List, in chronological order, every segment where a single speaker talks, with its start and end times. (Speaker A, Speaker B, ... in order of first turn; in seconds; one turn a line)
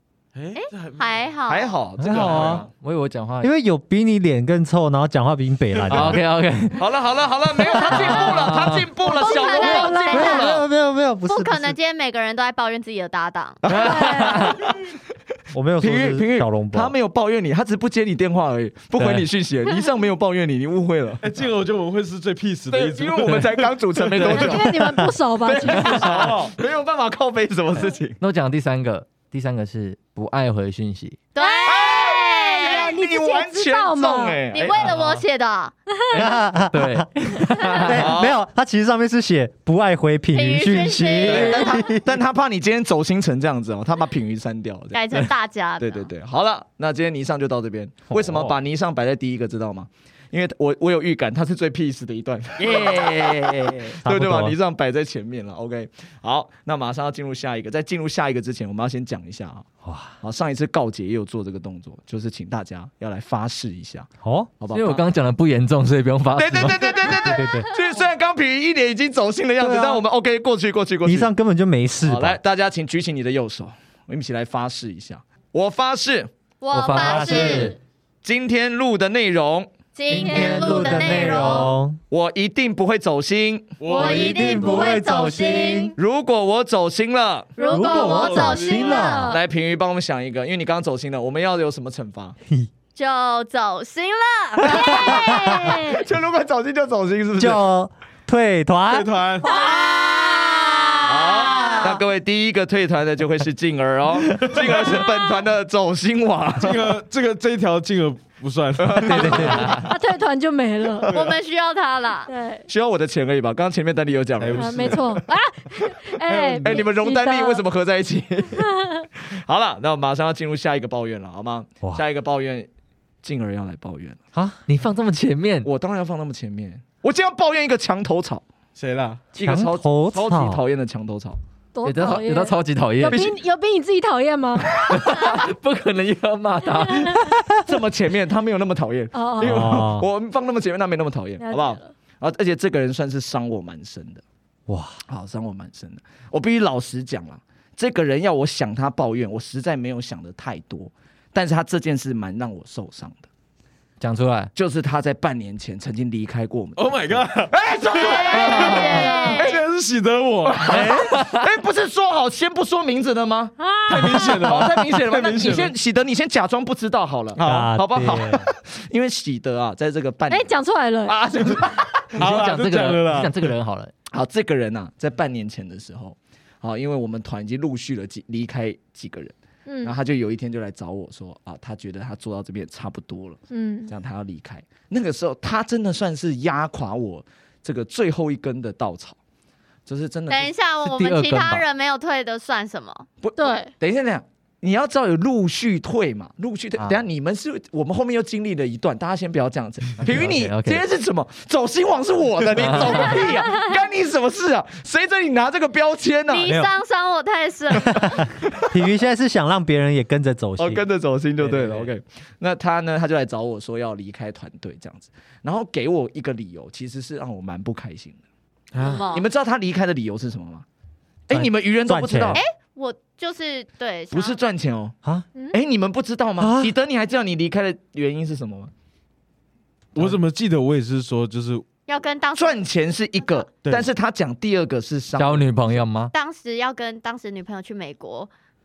Speaker A: 0.3-1.2
Speaker B: 0.6-1.7
Speaker C: 1.5-2.7
Speaker D: 2.0-2.6
Speaker E: 2.7-3.5
Speaker D: 3.4-6.2
Speaker E: 5.9-6.8
Speaker C: 6.7-10.6
Speaker E: 7.7-8.9
Speaker B: 9.1-10.6
Speaker F: 9.1-10.4
Speaker D: 9.7-11.8
Speaker B: 11.3-13.6
Speaker C: 13.6-14.7
Speaker E: 13.7-14.6
Speaker F: 13.7-14.6
Speaker D: 15.5-16.9
Speaker C: 15.8-21.5
Speaker E: 19.0-19.2
Speaker A: 21.2-24.7
Speaker C: 22.7-24.7
Speaker F: 24.2-26.3
Speaker C: 25.4-28.2
Speaker A: 25.9-26.5
Speaker E: 28.2-31.2
Speaker B: 31.3-32.9
Speaker F: 31.4-31.8
Speaker C: 31.6-34.9
Speaker F: 32.5-34.4
Speaker B: 34.5-35.7
Speaker A: 34.8-35.2
Speaker D: 36.1-42.0
Speaker E: 36.7-38.0
Speaker C: 37.9-38.4
Speaker B: 40.3-41.7
Speaker C: 41.2-59.7
Speaker B: 44.9-46.1
Speaker E: 48.1-48.5
Speaker E: 52.6-54.0
Speaker D: 54.0-54.5
Speaker D: 59.8-60.1
Speaker C: 60.2-65.0
Speaker D: 64.2-64.5
Speaker E: 64.7-67.2
Speaker C: 66.3-71.3
Speaker D: 67.2-67.7
Speaker D: 69.6-70.0
Speaker D: 71.0-72.4
Speaker C: 72.0-76.3
Speaker B: 76.6-77.8
Speaker E: 76.7-77.8
Speaker D: 76.9-77.7
Speaker C: 78.2-79.7
Speaker B: 80.0-81.7
Speaker D: 80.1-82.0
Speaker F: 80.1-81.6
Speaker C: 82.1-83.7
Speaker A: 83.8-84.7
Speaker B: 83.9-85.9
Speaker D: 83.9-85.9
Speaker F: 84.5-84.9
Speaker C: 86.0-87.5
Speaker F: 87.6-89.4
Speaker B: 87.6-89.4
Speaker D: 87.7-89.3
Speaker A: 88.0-88.9
Speaker C: 89.3-92.3
Speaker B: 92.9-96.0
Speaker D: 94.6-95.8
Speaker C: 94.7-95.1
Speaker C: 95.7-97.6
Speaker D: 97.4-99.1
Speaker A: 98.9-99.5
Speaker B: 99.4-101.9
Speaker C: 101.0-106.9
Speaker A: 104.4-105.0
Speaker A: 106.6-109.8
Speaker C: 108.8-109.8
Speaker D: 109.1-109.8
Speaker F: 109.7-111.2
Speaker A: 111.1-111.3
Speaker B: 111.1-112.3
Speaker F: 112.3-112.6
Speaker C: 112.7-115.1
Speaker A: 114.4-115.2
Speaker F: 114.5-117.6
Speaker A: 116.2-116.9
Speaker C: 116.6-122.7
Speaker F: 118.6-119.0
Speaker C: 123.2-124.2
Speaker D: 124.3-124.6
Speaker E: 124.7-125.7
Speaker C: 125.6-128.4
Speaker A: 128.8-129.3
Speaker C: 129.3-131.4
Speaker D: 129.4-130.6
Speaker F: 131.7-134.7
Speaker E: 131.8-133.3
Speaker C: 133.1-133.3
Speaker E: 134.8-137.3
Speaker F: 136.8-137.2
Speaker C: 137.6-144.2
Speaker F: 139.1-139.7
Speaker D: 139.4-140.1
Speaker F: 141.4-141.9
Speaker D: 144.7-145.0
Speaker C: 145.1-153.2
Speaker E: 154.0-154.5
Speaker C: 154.5-159.6
Speaker A: 156.8-157.6
Speaker B: 158.0-159.6
Speaker E: 158.3-159.1
Speaker A: 158.5-161.0
Speaker C: 160.4-170.5
Speaker D: 160.7-161.1
Speaker F: 163.6-164.4
Speaker A: 163.9-165.7
Speaker A: 167.3-167.7
Speaker D: 167.4-168.5
Speaker F: 170.3-171.2
Speaker C: 171.1-172.4
Speaker A: 172.1-173.5
Speaker E: 172.2-173.9
Speaker C: 174.1-189.2
Speaker F: 179.7-179.9
Speaker F: 183.5-183.9
Speaker C: 189.8-190.5
Speaker B: 190.3-193.1
Speaker E: 190.8-191.6
Speaker C: 193.2-206.6
Speaker F: 193.3-193.7
Speaker E: 200.0-200.8
Speaker E: 202.6-203.2
Speaker B: 206.3-208.3
Speaker D: 207.9-210.8
Speaker C: 210.6-218.2
Speaker A: 211.4-211.9
Speaker A: 218.7-219.1
Speaker B: 218.8-219.2
Speaker C: 219.1-220.6
Speaker C: 221.3-222.4
Speaker D: 221.3-222.4
Speaker B: 222.3-224.4
Speaker C: 224.1-224.9
Speaker C: 225.5-228.7
Speaker D: 226.4-226.7
Speaker A: 229.9-231.6
Speaker B: 231.9-232.6
Speaker C: 232.3-235.8
Speaker A: 233.6-233.9
Speaker E: 235.2-236.1
Speaker B: 236.1-238.3